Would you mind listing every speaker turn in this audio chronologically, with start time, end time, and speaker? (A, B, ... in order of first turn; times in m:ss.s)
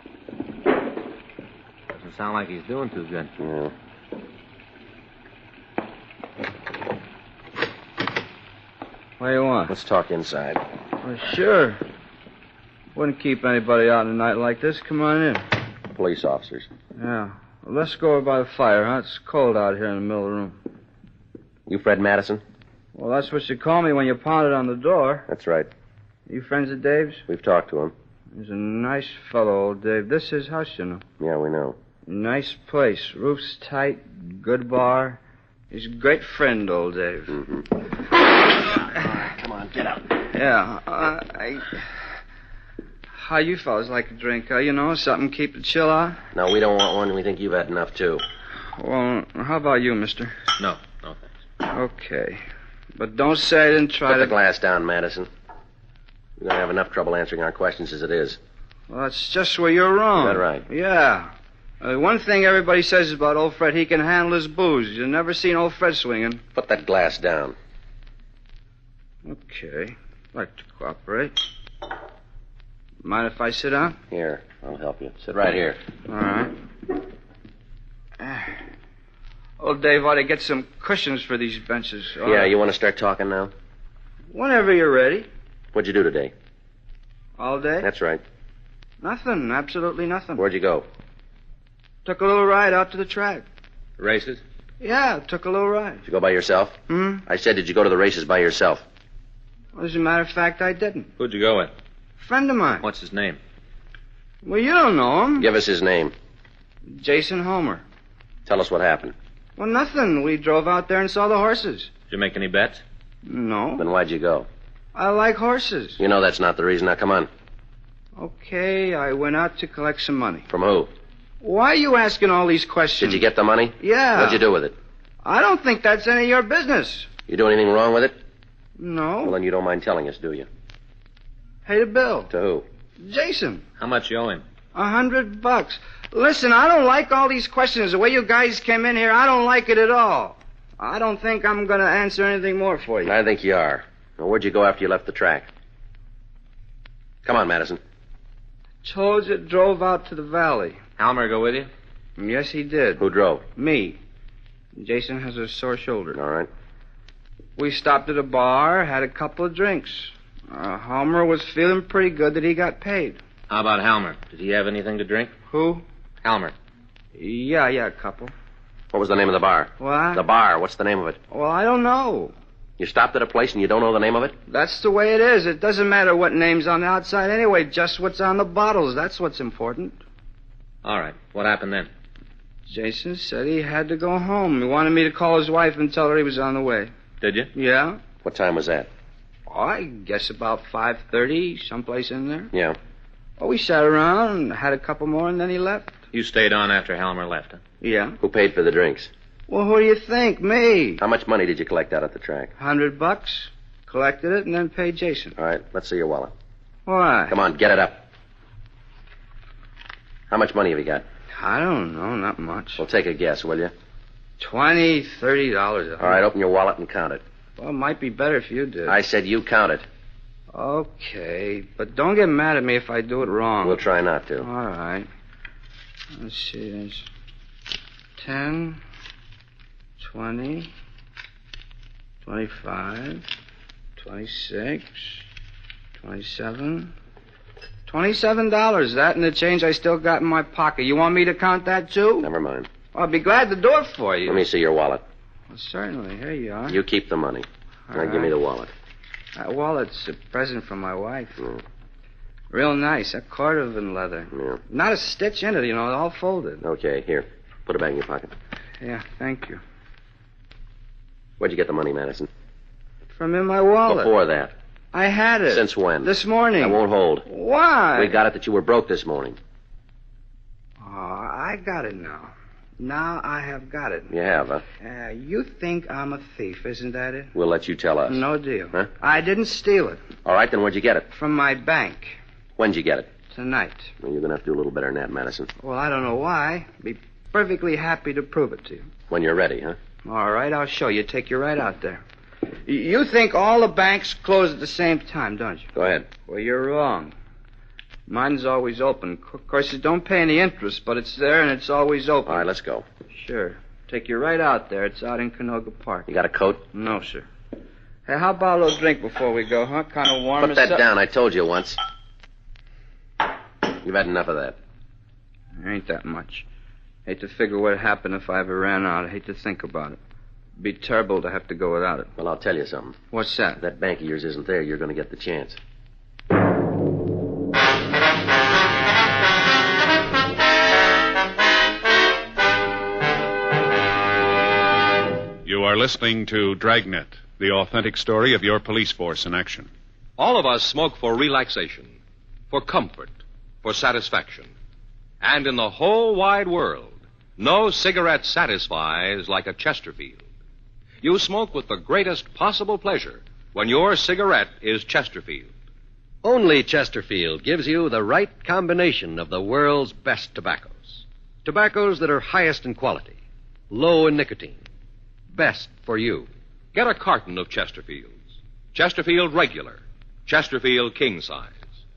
0:01.9-0:03.3 A
0:03.4-0:03.7 B
0:09.2-0:09.7 C
0:09.7-0:10.6 B
0:11.0-0:11.8 C
0:12.9-0:15.4 C
0:15.9-0:16.7 B
0:17.0-0:20.6 C
0:21.7-0:22.4 B
0:22.9-0:25.3 C
0:25.3-0:25.7 B
0:26.3-0:27.2 C
0:27.3-0:27.9 B
0:28.3-0:31.0 C
0:31.2-0:31.8 B
0:32.0-0:35.2 C
0:35.7-0:37.4 C
0:37.3-0:37.7 B
0:38.5-0:40.2 B
0:40.3-0:41.8 C
0:43.1-0:46.2 C
0:46.3-0:48.2 B
0:48.7-0:50.4 C
0:50.6-0:51.3 A
0:51.6-0:52.4 C
0:52.9-0:54.3 C
0:54.1-0:55.3 B
0:56.4-0:58.4 B
0:58.9-1:06.4 C
1:00.2-1:00.6 B
1:06.5-1:07.6 B
1:09.2-1:11.4 C
1:13.0-1:14.0 C
1:14.1-1:15.8 B
1:16.1-1:16.5 C
1:18.2-1:18.6 C
1:19.6-1:22.5 C
1:22.2-1:23.5 B
1:24.3-1:25.3 C
1:25.7-1:26.3 B
1:27.4-1:27.9 C
1:27.8-1:28.2 B
1:29.0-1:30.4 C
1:30.4-1:30.9 B
1:32.0-1:33.4 C
1:34.0-1:34.4 A
1:34.8-1:36.0 C
1:36.0-1:38.8 B
1:36.9-1:37.2 C
1:39.7-1:41.1 C
1:41.2-1:41.7 A
1:42.2-1:42.8 C
1:42.8-1:43.4 A
1:44.4-1:45.5 C
1:45.4-1:46.1 B
1:46.9-1:47.8 C
1:48.4-1:49.1 B
1:49.6-1:51.9 C
1:52.1-1:52.8 A
1:53.2-1:53.8 C
1:53.8-1:54.5 B
1:54.9-1:56.0 C
1:56.0-1:57.3 B
1:58.2-2:00.5 C
2:00.5-2:00.9 B
2:01.4-2:03.2 C
2:03.0-2:04.8 B
2:03.8-2:04.4 C
2:05.2-2:07.1 C
2:07.3-2:08.2 B
2:08.8-2:09.4 C
2:09.2-2:10.5 B
2:11.6-2:12.3 C
2:12.3-2:12.6 B
2:13.0-2:13.6 C
2:13.8-2:14.4 A
2:14.7-2:23.2 C
2:23.0-2:25.5 B
2:27.2-2:27.8 B
2:28.8-2:30.8 C
2:31.0-2:31.7 A
2:32.2-2:33.0 C
2:33.0-2:33.4 B
2:33.6-2:34.0 C
2:34.7-2:36.2 C
2:36.1-2:36.5 B
2:37.6-2:43.2 C
2:43.5-2:45.3 A
2:45.5-2:45.8 C
2:46.2-2:46.5 A
2:47.1-2:48.3 C
2:48.9-2:51.2 B
2:49.8-2:50.2 C
2:51.3-2:52.3 C
2:52.8-2:54.4 B
2:54.5-3:00.0 C
3:00.8-3:01.9 A
3:02.7-3:06.9 C
3:07.2-3:07.5 A
3:07.5-3:08.0 C
3:08.2-3:08.9 B
3:09.5-3:12.5 C
3:12.5-3:12.8 B
3:13.4-3:16.0 C
3:16.1-3:17.6 A
3:17.8-3:18.2 C
3:18.2-3:19.1 B
3:19.5-3:21.0 C
3:21.0-3:22.5 B
3:22.6-3:25.3 C
3:25.4-3:26.3 B
3:26.8-3:27.4 C
3:27.3-3:28.0 B
3:30.3-3:31.0 B
3:31.3-3:32.8 C
3:32.8-3:33.7 B
3:34.4-3:36.2 C
3:36.0-3:37.2 B
3:37.6-3:39.0 C
3:38.9-3:39.8 B
3:40.5-3:43.8 C
3:43.6-3:44.5 B
3:44.4-3:45.1 C
3:46.1-3:47.1 C
3:48.2-3:48.8 C
3:50.0-3:50.7 C
3:52.2-3:53.2 C
3:54.0-3:55.2 C
3:56.0-3:56.9 C
3:57.8-4:02.3 C
4:02.2-4:02.7 B
4:02.9-4:04.4 C
4:04.2-4:05.0 B
4:05.5-4:06.8 C
4:06.7-4:08.7 B
4:07.9-4:08.3 C
4:09.4-4:11.4 C
4:12.5-4:16.6 C
4:14.3-4:14.6 B
4:16.6-4:18.3 B
4:18.8-4:19.6 C
4:21.4-4:22.3 B
4:23.1-4:24.1 C
4:23.9-4:24.5 B
4:24.9-4:28.2 C
4:25.5-4:27.3 B
4:28.0-4:29.4 B
4:30.8-4:34.1 C
4:34.1-4:34.6 B
4:34.8-4:37.3 C
4:37.3-4:38.9 B
4:38.1-4:40.0 C
4:40.2-4:41.1 B
4:41.1-4:42.2 C
4:42.6-4:43.1 B
4:43.3-4:43.9 C
4:44.0-4:45.5 B
4:45.6-4:48.9 C
4:49.1-4:49.8 B
4:50.0-4:52.0 C
4:52.6-4:57.1 C
4:55.7-4:56.1 B
4:58.1-5:02.5 C
5:02.2-5:02.8 B
5:03.1-5:06.1 C
5:06.1-5:06.7 B
5:06.7-5:07.3 C
5:08.0-5:10.8 C
5:10.4-5:11.8 B
5:13.8-5:14.6 B
5:15.6-5:16.4 C
5:17.0-5:20.0 C
5:20.6-5:22.1 C
5:22.2-5:23.0 B
5:23.1-5:23.6 C
5:23.6-5:25.6 B
5:35.4-5:39.7 D
5:40.2-5:42.0 E
5:42.5-5:44.5 E
5:45.2-5:50.2 E
5:51.0-5:55.5 E
5:56.2-6:03.2 F
6:03.7-6:04.6 F
6:05.3-6:06.3 F
6:06.7-6:11.7 E